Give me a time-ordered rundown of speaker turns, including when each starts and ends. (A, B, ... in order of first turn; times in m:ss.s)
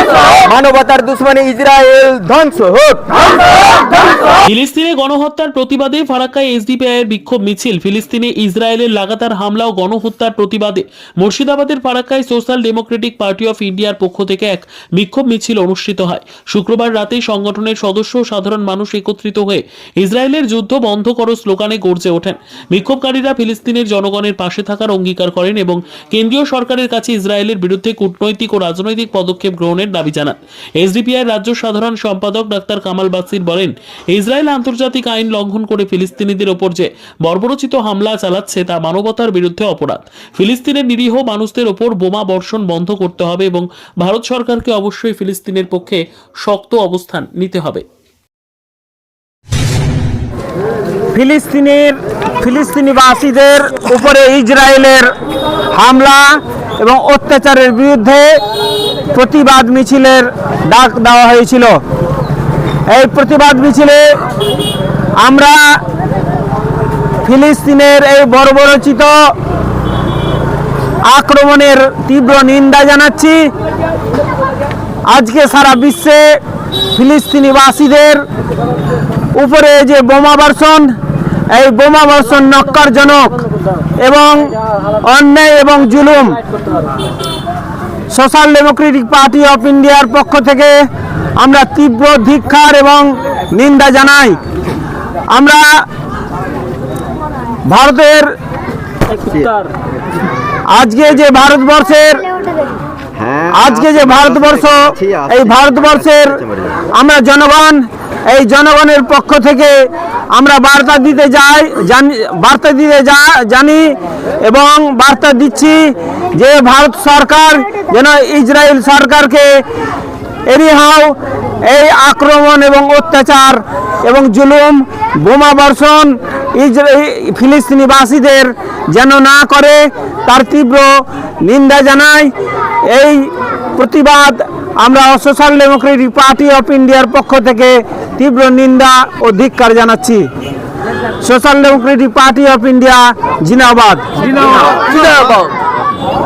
0:00.3-0:03.2 A
0:04.5-0:47.8 B
0:51.1-0:55.1 C
0:55.7-0:58.4 C
0:59.1-1:01.8 C
1:02.9-1:04.0 C
1:05.2-1:05.8 C
1:07.2-1:09.3 C
1:11.1-1:13.4 C
1:15.1-1:16.4 C
1:16.9-1:18.2 C
1:19.4-1:20.9 C
1:21.5-1:23.4 C
1:24.0-1:26.4 C
1:28.1-1:30.7 C
1:31.4-1:34.4 C
1:35.3-1:35.8 C
1:37.7-1:38.3 C
1:39.2-1:39.5 A
1:40.7-1:42.3 C
1:43.2-1:46.0 A
1:43.5-1:46.4 C
1:46.9-1:59.6 C
2:00.5-2:12.3 C
2:12.9-2:20.3 C
2:21.2-2:24.1 C
2:24.4-2:25.3 A